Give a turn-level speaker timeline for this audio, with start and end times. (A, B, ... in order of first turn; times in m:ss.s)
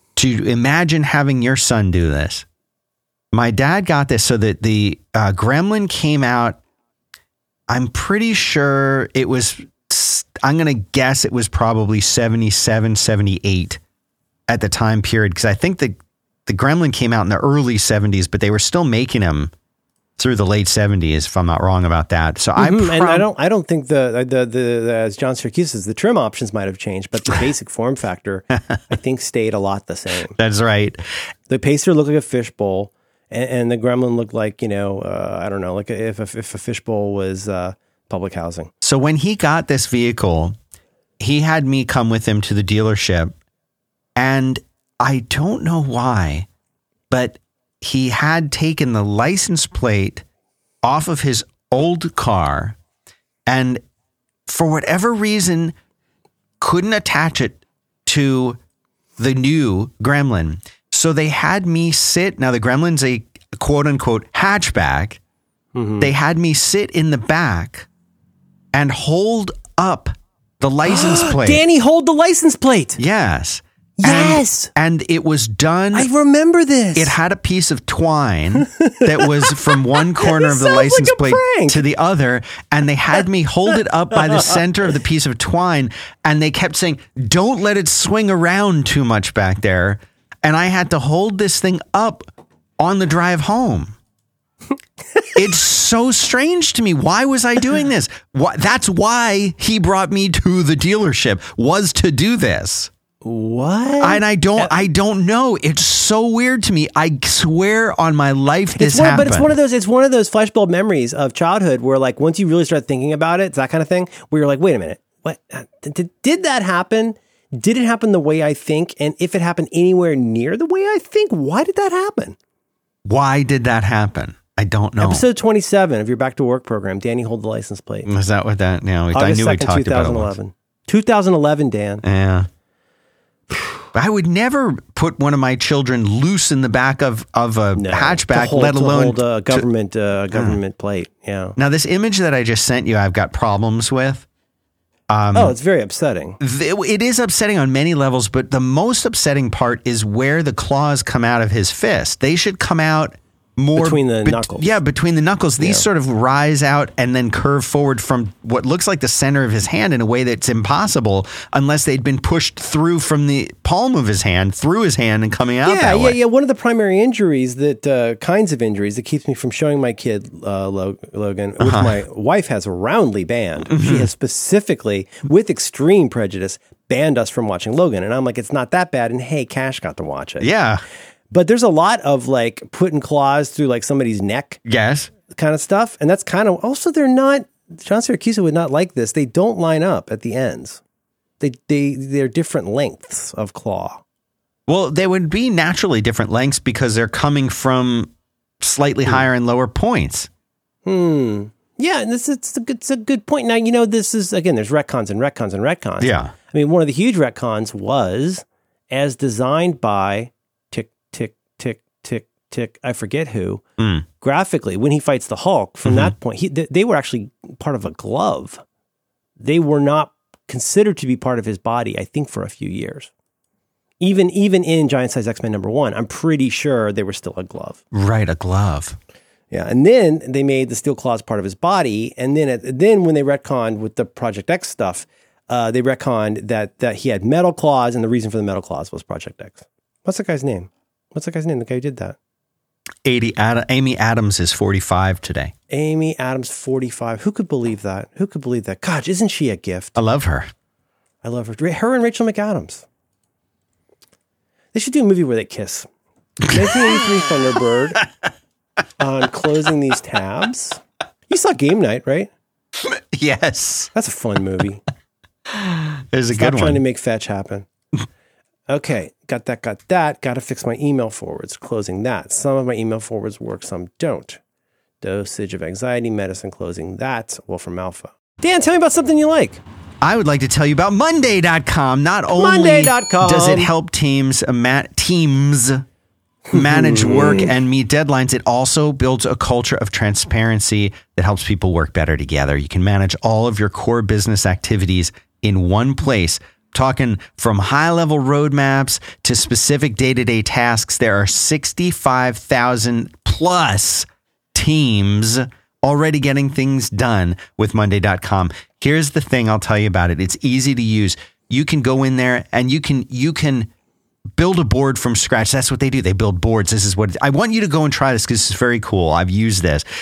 0:00.2-0:02.4 A
0:03.3-0:06.6 A
0:07.7-0:13.8 A
0:14.5-0:19.5 A
0:20.2-0:23.2 A
0:22.6-0:30.4 B
0:30.4-0:31.0 A
0:31.5-0:38.7 B
0:38.8-0:40.5 A
0:41.2-0:43.3 A
0:44.2-0:46.5 A
0:47.1-0:50.2 A
0:50.8-0:52.8 A
0:53.5-0:53.8 A
0:54.5-0:55.7 A
0:56.6-0:58.6 A
0:59.2-1:05.2 A
1:05.7-1:06.1 B
1:06.0-1:07.9 A
1:08.7-1:11.6 A
1:10.8-1:13.0 B
1:13.0-1:16.1 A
1:14.0-1:14.7 B
1:15.9-1:17.2 B
1:17.0-1:32.2 A
1:18.6-1:21.8 B
1:24.3-1:24.5 B
1:32.8-1:34.0 A
1:35.3-1:42.9 A
1:43.2-1:44.8 B
1:44.0-1:49.5 A
1:48.8-2:02.4 B
2:03.0-2:05.2 A
2:05.0-2:08.1 B
2:08.1-2:10.3 A
2:09.1-2:12.0 B
2:12.0-2:12.5 A
2:13.5-2:13.8 B
2:13.9-2:19.6 A
2:17.7-2:21.6 B
2:21.6-2:24.3 A
2:25.1-2:25.5 A
2:25.3-2:26.4 B
2:26.4-2:46.2 A
2:33.7-2:34.6 B
2:35.6-2:35.8 B
2:45.6-3:00.5 B
2:51.6-2:51.9 A
2:53.7-2:54.1 A
3:00.4-3:00.8 A
3:01.3-3:04.6 B
3:04.6-3:05.1 A
3:05.3-3:10.8 B
3:11.4-3:14.0 B
3:14.7-3:20.3 A
3:20.8-3:33.6 B
3:26.0-3:26.3 A
3:33.8-3:34.0 A
3:34.2-3:38.6 B
3:35.8-3:36.1 A
3:39.4-3:43.1 B
3:44.0-3:47.8 B
3:47.9-3:49.0 A
3:49.5-4:02.2 B
4:03.0-4:05.5 A
4:05.7-4:10.0 B
4:10.0-4:10.5 A
4:11.2-4:12.8 B
4:14.7-4:15.9 B
4:16.4-4:18.1 B
4:16.4-4:17.0 A
4:19.0-4:22.3 B
4:22.8-4:23.9 A
4:23.9-4:24.8 B
4:25.5-4:26.8 A
4:26.3-4:27.7 B
4:28.7-4:34.4 B
4:35.0-4:39.6 B
4:40.0-4:45.8 A
4:42.3-4:43.7 B
4:46.5-4:47.5 B
4:46.5-5:13.7 A
5:14.4-5:19.8 A